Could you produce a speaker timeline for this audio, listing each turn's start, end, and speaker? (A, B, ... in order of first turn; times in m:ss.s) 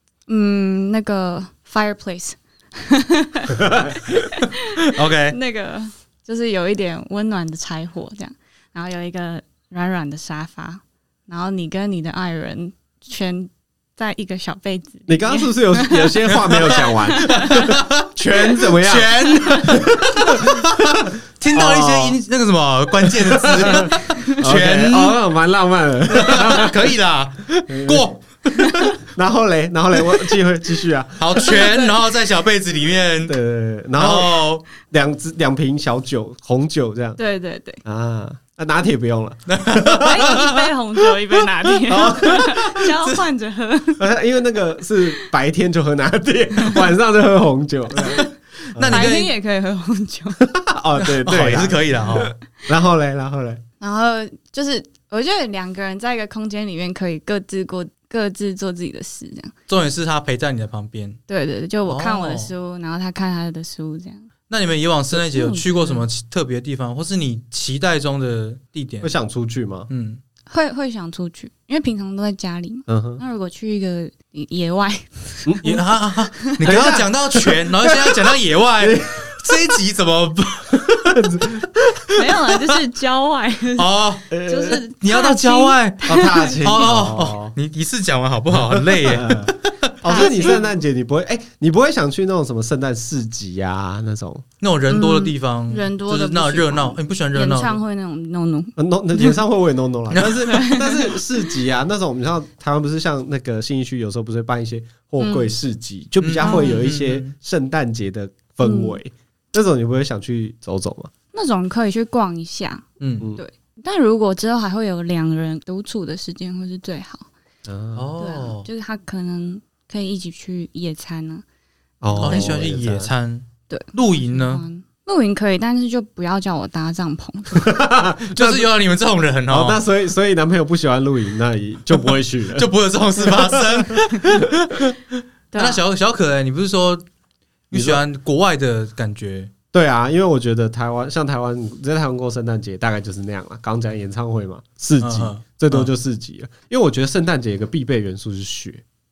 0:00.3-0:17.8 A
0:03.5-0:04.1 B
0:04.9-0:05.4 C
0:15.1-0:22.2 B
0:16.3-0:25.2 C
0:23.0-0:27.0 B
0:26.1-0:28.8 C
0:27.6-0:28.1 B
0:28.6-0:28.9 A
0:28.9-0:31.7 B
0:31.2-0:33.4 C
0:31.4-0:31.9 A
0:33.2-0:37.2 B
0:34.0-0:34.6 C
0:37.2-0:37.8 A
0:37.8-0:40.4 B
0:39.5-0:40.7 C
0:40.0-0:44.1 A
0:41.9-0:42.8 B
0:44.0-0:49.1 B
0:48.8-0:49.3 C
0:48.9-0:50.5 A
0:50.4-0:53.6 B
0:51.0-0:52.3 C
0:53.8-0:59.5 A
0:59.7-1:01.2 C
1:01.3-1:04.3 A
1:01.9-1:02.5 C
1:04.5-1:09.1 C
1:05.1-1:06.1 A
1:09.0-1:09.9 B
1:09.9-1:10.2 C
1:10.5-1:15.8 A
1:12.9-1:13.2 B
1:15.4-1:15.8 B
1:15.6-1:21.5 C
1:16.4-1:16.6 A
1:16.6-1:19.6 B
1:20.7-1:22.1 B
1:22.1-1:26.6 A
1:23.8-1:30.6 C
1:24.3-1:24.8 B
1:26.0-1:27.6 B
1:28.5-1:34.4 B
1:30.0-1:30.6 A
1:34.6-1:37.8 C
1:34.9-1:39.4 A
1:38.8-1:51.1 B
1:40.1-1:40.8 C
1:40.5-1:41.2 A
1:45.2-1:45.5 A
1:46.2-1:47.3 C
1:46.4-1:46.8 A
1:48.6-1:49.0 A
1:51.3-1:57.3 A
1:53.0-1:53.3 C
1:57.7-1:58.1 B
1:58.0-1:58.7 C
1:58.2-2:01.4 A
2:02.0-2:03.1 B
2:02.1-2:02.6 A
2:02.2-2:04.6 C
2:03.7-2:07.8 A
2:07.5-2:08.7 B
2:08.4-2:09.8 C
2:09.5-2:14.5 B
2:12.6-2:15.0 C
2:15.5-2:15.8 A
2:15.6-2:17.0 C
2:17.7-2:19.5 C
2:17.7-2:18.0 B
2:19.7-2:28.8 B
2:25.0-2:25.9 C